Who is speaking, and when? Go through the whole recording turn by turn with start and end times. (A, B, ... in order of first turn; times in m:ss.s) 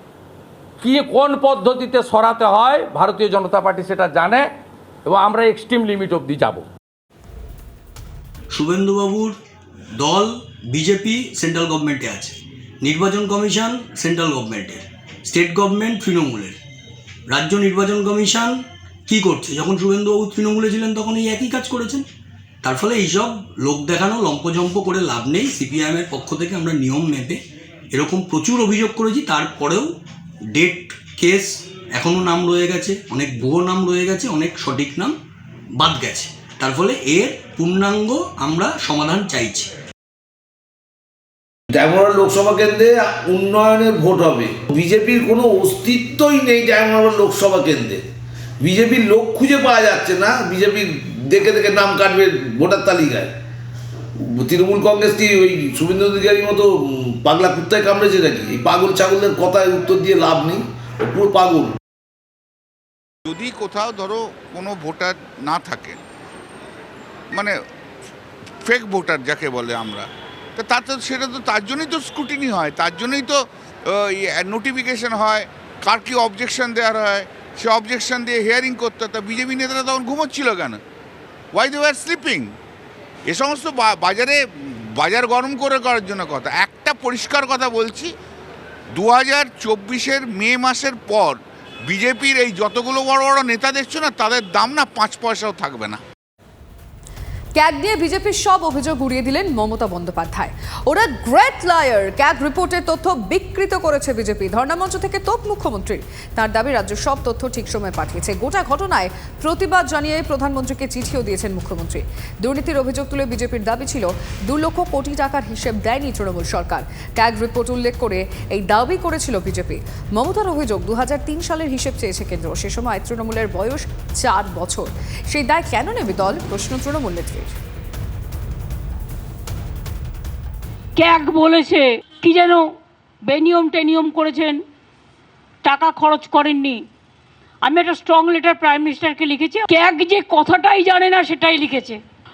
0:00.8-0:04.5 A
0:05.1-0:06.6 A
0:08.5-0:09.4 B
0:10.0-0:16.6 B
0:17.3-0:22.1 B
0:22.6-0:27.4 B
0:27.9-0:29.9 B
0:30.5-0:35.1 B
0:35.8-0:39.7 B
0:41.7-0:48.0 C
0:48.6-0:53.4 C
0:54.2-1:01.8 C
1:03.3-1:06.0 D
1:07.3-1:07.6 D
1:08.6-1:10.1 D
1:10.6-1:20.8 D
1:21.5-1:22.5 D
1:23.3-1:28.1 D
1:28.9-1:36.0 D
1:37.6-2:07.6 E
2:11.0-2:12.6 F
2:13.3-2:14.6 F
2:15.6-2:16.8 F
2:17.6-2:22.0 F